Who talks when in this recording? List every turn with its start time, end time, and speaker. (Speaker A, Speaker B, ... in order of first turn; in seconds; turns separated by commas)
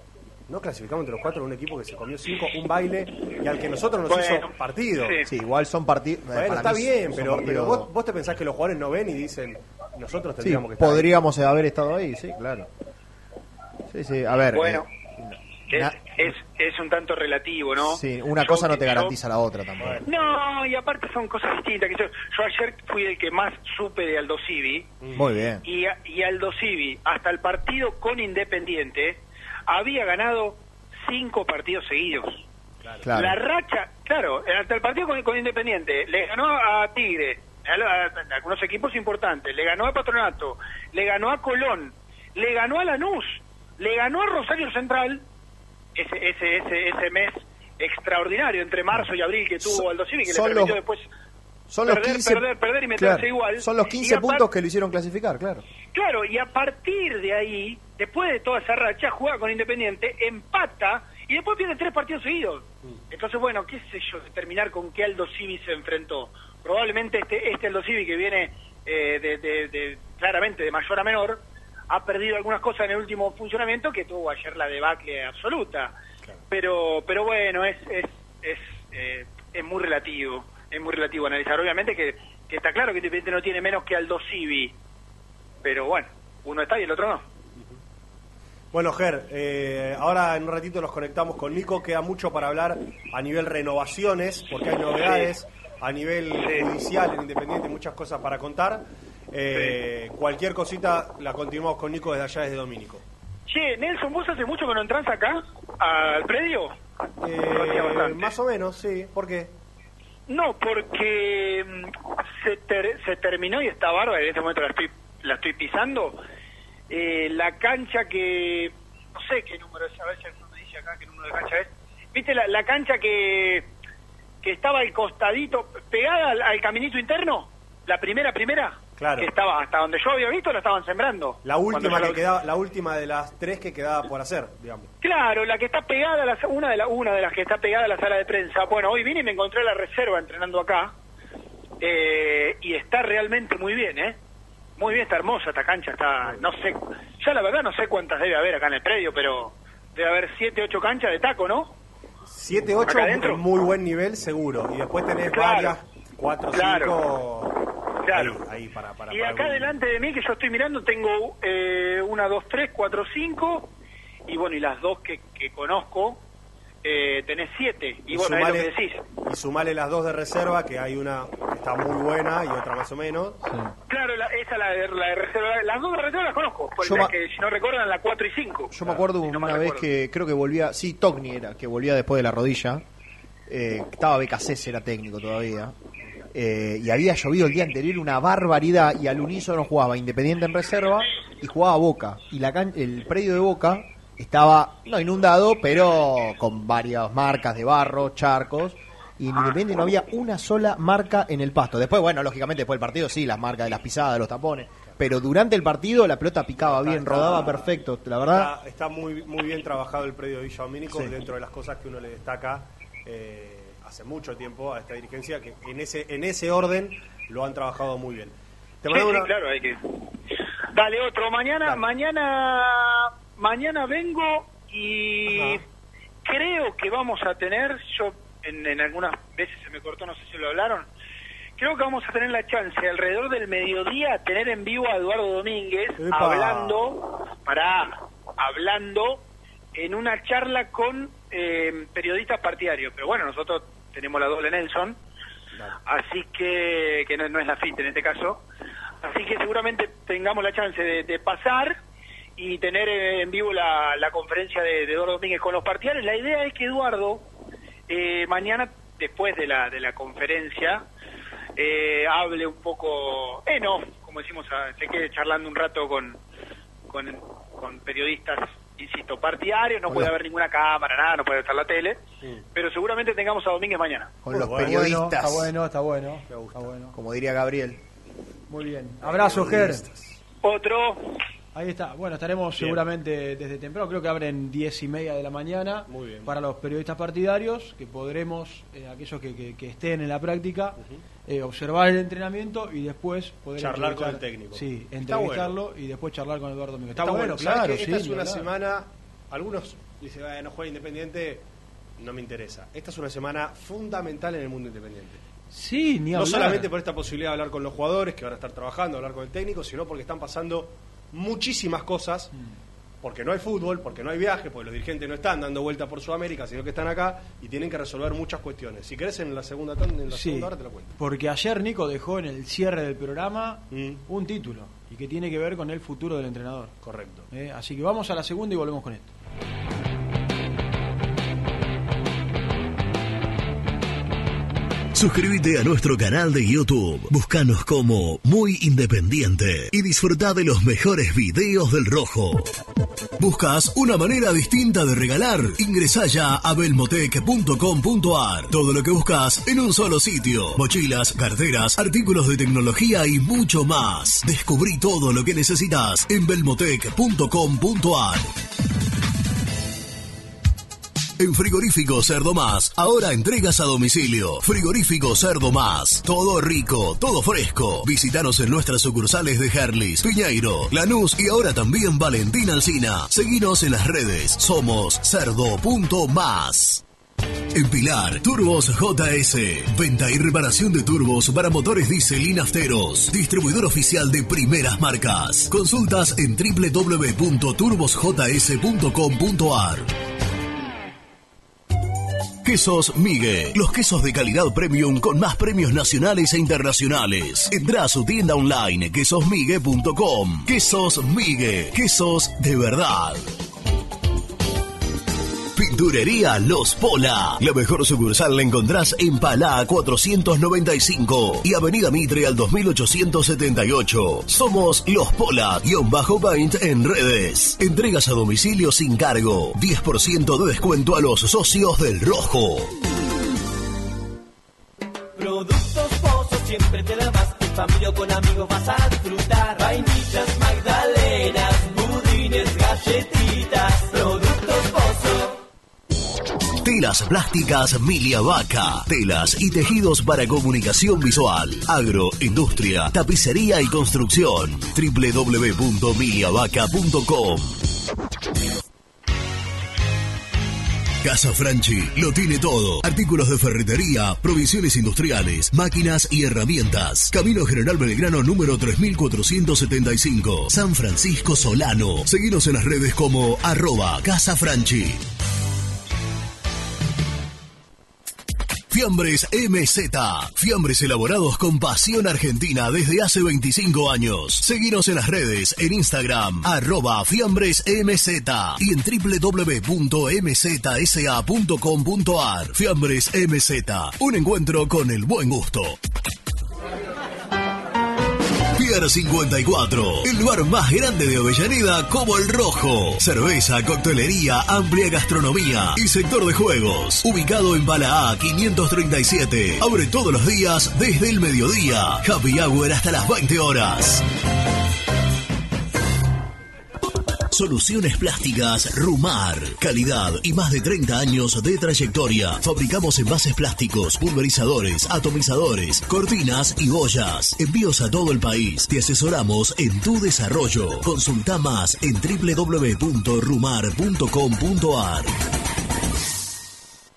Speaker A: 0.5-5.2, Speaker B: 4.1-4.5, Speaker C: 5.3-7.9, Speaker A: 6.3-11.1, Speaker C: 10.4-12.7, Speaker C: 13.9-15.9, Speaker B: 14.5-14.9, Speaker B: 15.7-19.1, Speaker C: 17.8-20.0, Speaker A: 19.8-20.1, Speaker B: 20.1-24.9, Speaker A: 25.0-25.3, Speaker C: 25.1-25.6, Speaker B: 25.6-32.4, Speaker A: 32.8-33.1, Speaker C: 33.0-33.4, Speaker B: 33.1-45.2, Speaker B: 46.0-51.1, Speaker C: 49.6-50.8, Speaker C: 51.7-52.4, Speaker B: 51.8-54.4, Speaker C: 53.0-55.6, Speaker B: 55.9-76.0, Speaker B: 76.5-84.7, Speaker B: 85.6-87.2, Speaker A: 88.7-103.0, Speaker B: 95.0-95.3, Speaker B: 96.4-96.7, Speaker B: 103.5-106.7, Speaker A: 107.2-109.5, Speaker B: 107.5-108.3, Speaker B: 110.3-116.2, Speaker B: 116.9-123.7, Speaker B: 124.4-132.3, Speaker A: 129.0-129.3, Speaker A: 131.4-134.9, Speaker B: 135.0-140.9, Speaker B: 141.8-144.2, Speaker B: 144.8-151.7, Speaker A: 152.3-159.8, Speaker B: 152.8-153.4, Speaker B: 155.3-155.8, Speaker B: 156.5-157.0, Speaker B: 158.1-158.4, Speaker B: 159.1-163.7, Speaker B: 164.3-166.2, Speaker B: 166.8-169.1, Speaker A: 168.1-168.7, Speaker A: 169.2-173.4, Speaker C: 173.5-173.7, Speaker B: 173.9-179.8, Speaker C: 176.8-177.1, Speaker C: 178.7-182.8, Speaker C: 183.5-185.8, Speaker C: 186.3-208.5, Speaker A: 206.6-207.7, Speaker A: 208.3-219.3, Speaker B: 218.9-219.8, Speaker B: 220.7-225.6, Speaker A: 225.3-225.6, Speaker B: 226.2-230.9, Speaker B: 231.6-239.2, Speaker A: 236.0-236.8, Speaker B: 239.8-245.0, Speaker B: 245.9-248.4, Speaker B: 249.0-251.8, Speaker B: 252.4-257.2, Speaker B: 257.9-260.9, Speaker B: 261.6-266.2, Speaker B: 266.9-272.0, Speaker B: 272.6-274.2, Speaker C: 274.2-275.5, Speaker A: 274.3-274.9, Speaker D: 274.3-276.9, Speaker A: 276.3-276.7, Speaker C: 276.9-277.8, Speaker D: 278.5-279.8, Speaker A: 279.0-280.2, Speaker B: 280.4-281.0, Speaker D: 281.5-298.5, Speaker A: 282.6-282.8, Speaker A: 285.9-286.3, Speaker A: 293.6-295.5, Speaker A: 297.0-301.4, Speaker A: 302.0-305.2, Speaker D: 305.5-306.7, Speaker A: 306.1-312.3, Speaker A: 313.0-320.9, Speaker D: 320.1-326.7, Speaker A: 323.7-324.0, Speaker A: 326.8-327.3, Speaker D: 327.3-329.1, Speaker E: 334.9-342.5, Speaker E: 343.2-358.3, Speaker E: 361.2-376.8, Speaker E: 377.5-389.9, Speaker E: 392.4-403.3, Speaker E: 405.6-422.7, Speaker F: 425.2-435.4, Speaker E: 436.6-447.6, Speaker E: 451.0-465.0, Speaker E: 468.7-485.8, Speaker E: 488.6-504.0, Speaker E: 507.3-525.1